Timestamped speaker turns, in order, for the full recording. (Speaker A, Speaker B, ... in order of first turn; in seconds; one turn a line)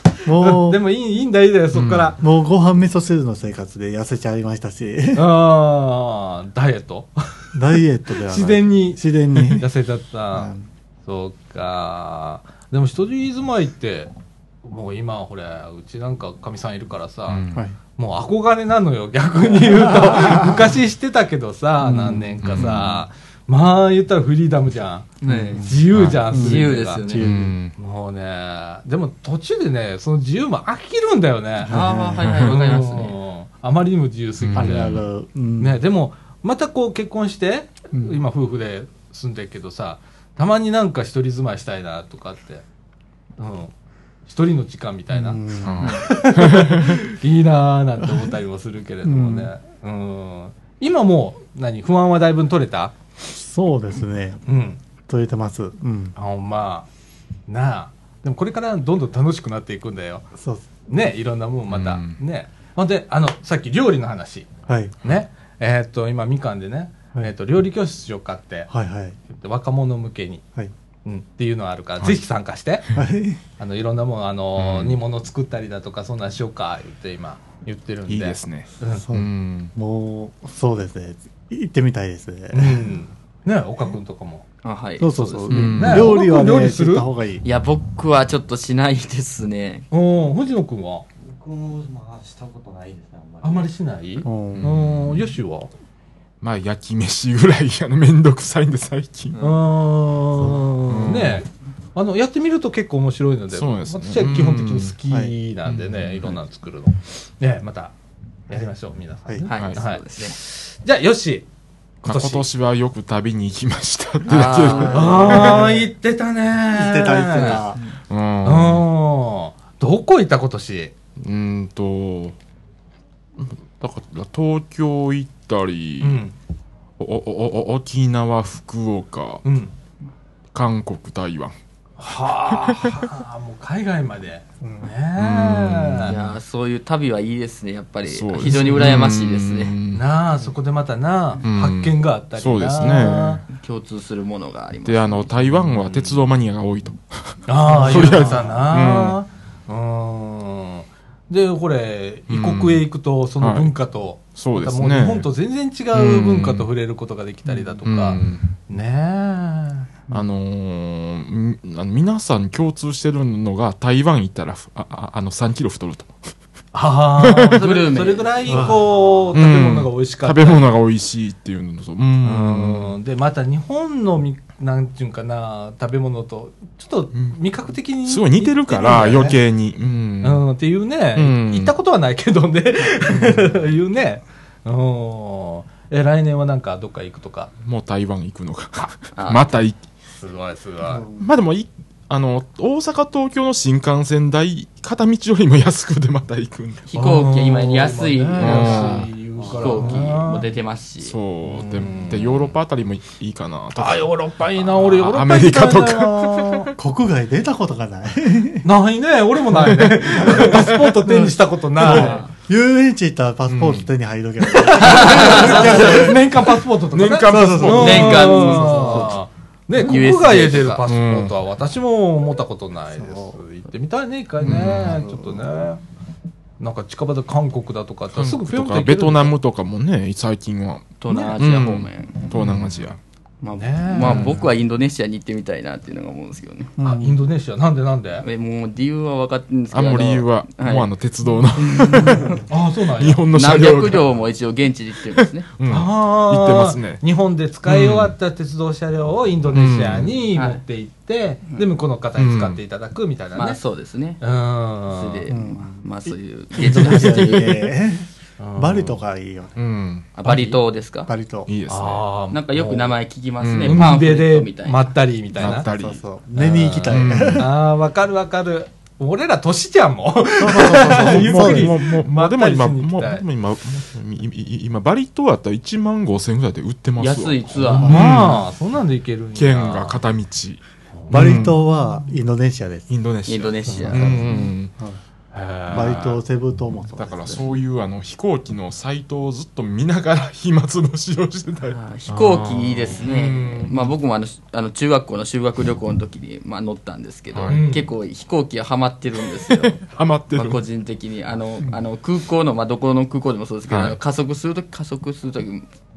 Speaker A: 0.2-0.8
Speaker B: 0.4-2.2
Speaker C: 1.7-2.1
Speaker A: 2.2-5.3
Speaker B: 5.2-7.2
Speaker A: 7.5-9.7
Speaker B: 8.3-10.5
Speaker A: 10.3-10.7
Speaker B: 11.1-14.1
Speaker B: 14.6-17.4
Speaker C: 17.3-17.6
Speaker B: 18.0-27.0
Speaker A: 20.0-20.6
Speaker A: 21.8-22.6
Speaker C: 22.4-23.0
Speaker D: 25.2-27.3
Speaker A: 25.3-27.6
Speaker C: 25.9-26.2
Speaker C: 27.2-27.7
Speaker B: 27.8-31.9
Speaker D: 31.7-33.2
Speaker A: 31.7-32.4
Speaker B: 32.4-35.0
Speaker C: 34.4-35.0
Speaker A: 34.6-35.8
Speaker B: 35.6-42.6
Speaker A: 37.9-38.2
Speaker B: 43.4-43.7
Speaker B: 44.3-53.0
Speaker A: 45.1-45.9
Speaker C: 45.6-47.0
Speaker A: 49.0-49.5
Speaker A: 53.2-54.5
Speaker B: 54.5-54.8
Speaker A: 55.1-56.1
Speaker B: 56.2-56.9
Speaker B: 57.5-60.3
Speaker A: 60.4-60.7
Speaker B: 60.9-64.5
Speaker C: 61.7-62.2
Speaker A: 64.7-65.0
Speaker B: 65.0-68.7
Speaker A: 68.7-69.2
Speaker B: 69.3-70.5
Speaker B: 71.0-72.9
Speaker A: 73.0-73.4
Speaker B: 73.6-79.0
Speaker C: 74.6-75.0
Speaker C: 78.1-79.7
Speaker A: 79.0-82.9
Speaker B: 82.5-84.5
Speaker D: 84.6-85.7
Speaker A: 85.0-87.4
Speaker C: 85.5-86.2
Speaker B: 85.7-87.1
Speaker D: 87.4-89.9
Speaker B: 89.9-91.1
Speaker E: 91.2-93.7
Speaker B: 93.4-95.7
Speaker A: 94.2-94.8
Speaker C: 94.5-95.2
Speaker C: 96.4-99.4
Speaker B: 99.4-107.9
Speaker A: 100.4-100.7
Speaker C: 100.9-101.4
Speaker C: 103.5-105.0
Speaker A: 105.1-105.3
Speaker C: 105.7-106.4
Speaker B: 108.5-111.5
Speaker D: 109.5-110.4
Speaker B: 112.0-112.4
Speaker C: 112.0-115.7
Speaker D: 114.3-115.1
Speaker A: 114.7-115.9
Speaker B: 114.9-117.6
Speaker A: 116.6-117.8
Speaker D: 117.4-118.0
Speaker C: 118.1-118.9
Speaker B: 118.5-120.9
Speaker C: 121.2-122.4
Speaker C: 123.4-126.2
Speaker B: 126.0-126.3
Speaker C: 127.0-129.4
Speaker B: 129.4-129.7
Speaker C: 130.5-131.6
Speaker B: 132.0-136.2
Speaker A: 134.6-134.9
Speaker C: 135.2-136.2
Speaker D: 136.1-139.8
Speaker C: 138.1-140.0
Speaker B: 139.9-143.4
Speaker C: 141.4-143.4
Speaker D: 143.5-145.3
Speaker C: 144.8-149.2
Speaker B: 145.9-146.2
Speaker B: 147.5-159.9
Speaker A: 147.7-148.7
Speaker C: 152.3-152.9
Speaker C: 153.4-155.3
Speaker C: 155.9-156.7
Speaker C: 157.8-158.5
Speaker C: 160.1-166.1
Speaker B: 166.7-170.7
Speaker C: 167.2-167.6
Speaker D: 167.6-168.7
Speaker A: 168.5-168.9
Speaker C: 169.3-173.0
Speaker B: 172.2-179.4
Speaker C: 178.1-180.5
Speaker B: 180.2-187.5
Speaker C: 181.1-181.8
Speaker C: 187.6-189.8
Speaker D: 189.2-189.5
Speaker B: 190.2-191.1
Speaker A: 190.9-191.3
Speaker C: 191.2-196.9
Speaker D: 196.9-201.2
Speaker B: 196.9-200.5
Speaker C: 198.4-199.1
Speaker E: 199.4-199.7
Speaker C: 201.0-206.7
Speaker B: 201.4-202.5
Speaker B: 203.8-206.7
Speaker A: 206.8-208.7
Speaker B: 208.6-212.2
Speaker C: 209.5-210.9
Speaker A: 210.1-216.5
Speaker D: 211.8-212.3
Speaker C: 213.5-213.9
Speaker B: 214.5-225.8
Speaker D: 214.8-215.7
Speaker C: 216.9-218.5
Speaker A: 217.2-219.1
Speaker D: 217.7-219.2
Speaker D: 219.8-220.8
Speaker C: 220.8-221.3
Speaker A: 223.0-223.4
Speaker C: 224.4-225.0
Speaker A: 224.7-225.4
Speaker B: 226.6-229.3
Speaker C: 228.1-233.0
Speaker D: 231.0-232.3
Speaker B: 231.1-231.4
Speaker D: 233.4-236.8
Speaker B: 233.6-234.4
Speaker C: 234.0-234.4
Speaker A: 236.8-237.3
Speaker B: 236.8-238.3
Speaker D: 238.2-240.9
Speaker C: 239.7-242.3
Speaker D: 241.6-242.4
Speaker B: 242.5-243.2
Speaker C: 243.0-244.1
Speaker D: 243.3-245.5
Speaker C: 245.6-247.0
Speaker B: 245.7-253.6
Speaker C: 247.7-248.1
Speaker C: 249.5-250.1
Speaker D: 250.3-250.6
Speaker C: 252.2-252.6
Speaker D: 253.3-254.2
Speaker B: 254.2-255.3
Speaker D: 254.9-257.7
Speaker A: 255.3-259.5
Speaker B: 258.4-259.0
Speaker C: 259.6-260.1
Speaker D: 260.1-261.1
Speaker A: 260.2-261.5
Speaker C: 261.5-262.1
Speaker B: 261.7-262.9
Speaker D: 262.3-264.9
Speaker C: 263.4-263.9
Speaker B: 263.6-265.7
Speaker C: 265.4-266.0
Speaker A: 265.4-267.5
Speaker B: 266.4-273.2
Speaker C: 266.9-267.5
Speaker A: 270.4-271.8
Speaker C: 270.8-278.5
Speaker D: 277.0-278.0
Speaker A: 277.8-278.1
Speaker B: 277.8-280.0
Speaker C: 279.4-281.6
Speaker B: 280.9-281.4
Speaker A: 281.1-282.9
Speaker C: 282.9-284.7
Speaker D: 283.3-284.5
Speaker A: 283.7-285.0
Speaker B: 285.3-286.2
Speaker C: 285.7-286.1
Speaker A: 285.7-287.4
Speaker C: 287.0-293.8
Speaker D: 291.7-299.8
Speaker C: 297.3-297.6
Speaker B: 297.5-297.9
Speaker C: 299.6-300.6
Speaker D: 300.3-305.7
Speaker C: 303.7-304.0